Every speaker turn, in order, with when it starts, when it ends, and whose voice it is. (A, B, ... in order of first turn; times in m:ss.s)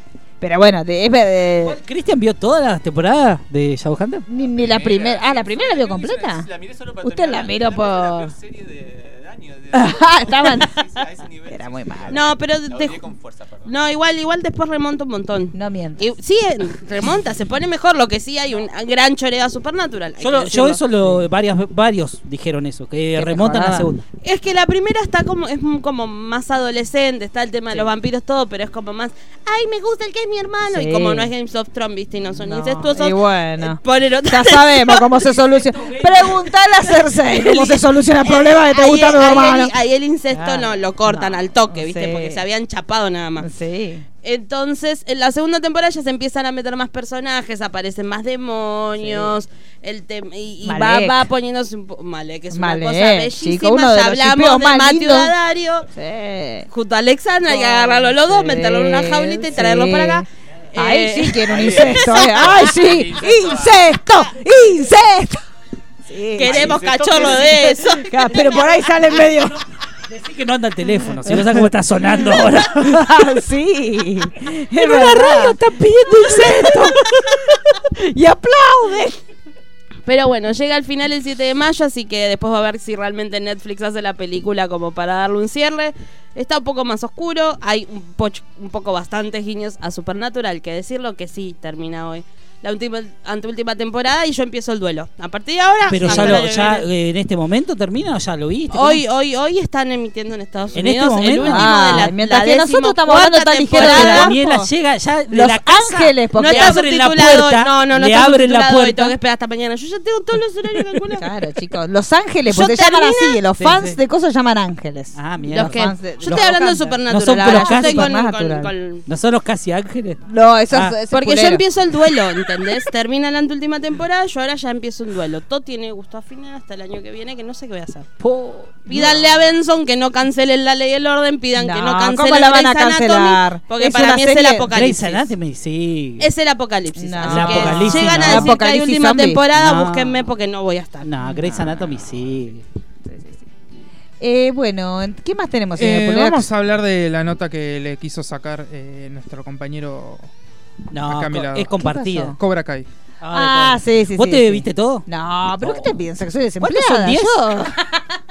0:00.4-0:01.8 A
0:01.6-0:04.3 B
0:04.3-0:06.5 A
0:04.5-0:13.7 C
0:07.0-0:08.3 A
0:09.7-0:10.8 A
0:11.5-0:12.2 A
0:12.1-0:13.1 D
0:13.6-0:20.8 D
0:15.6-0:16.0 A
0:20.2-0:24.0 B
0:23.2-0:23.9 A
0:24.2-0:35.4 D
0:30.7-0:31.3 A
0:32.3-0:39.7 A
0:36.0-0:36.4 D
0:37.1-0:43.5 D
0:40.3-0:42.4 A
0:43.4-0:44.0 A
0:44.2-0:55.9 D
0:49.0-0:49.3 A
0:50.6-0:51.3 A
0:52.5-0:55.3 A
0:56.0-0:56.7 A
0:56.7-1:02.8 D
0:57.5-1:05.4 A
1:01.5-1:04.0 C
1:06.1-1:09.6 A
1:06.3-1:08.7 D
1:06.4-1:07.4 C
1:10.1-1:13.1 B
1:11.3-1:11.6 A
1:12.1-1:19.2 A
1:14.7-1:17.0 B
1:20.0-1:36.8 D
1:35.9-1:39.0 B
1:36.0-1:36.4 A
1:38.7-1:44.3 D
1:40.7-1:42.1 B
1:41.5-1:44.7 A
1:43.7-1:49.2 B
1:45.3-1:46.8 A
1:46.4-1:51.3 D
1:51.1-1:58.7 A
1:52.5-1:53.4 D
1:53.6-1:54.0 B
1:55.1-1:56.4 B
1:55.5-1:59.0 D
1:57.1-1:58.1 B
1:59.1-2:01.0 B
2:00.3-2:01.6 A
2:01.1-2:08.1 D
2:08.2-2:09.2 B
2:08.9-2:15.3 D
2:11.6-2:14.7 A
2:14.7-2:16.3 B
2:16.2-2:21.1 D
2:17.0-2:19.4 A
2:17.2-2:18.6 B
2:19.6-2:20.2 B
2:21.0-2:22.6 B
2:21.2-2:21.8 A
2:23.1-2:23.4 A
2:24.2-2:26.5 A
2:25.8-2:30.3 E
2:30.9-2:32.4 B
2:31.0-2:31.8 E
2:31.8-2:32.4 A
2:32.4-2:32.9 E
2:33.2-2:35.0 B
2:33.3-2:38.0 A
2:35.6-2:35.9 B
2:36.6-2:37.4 B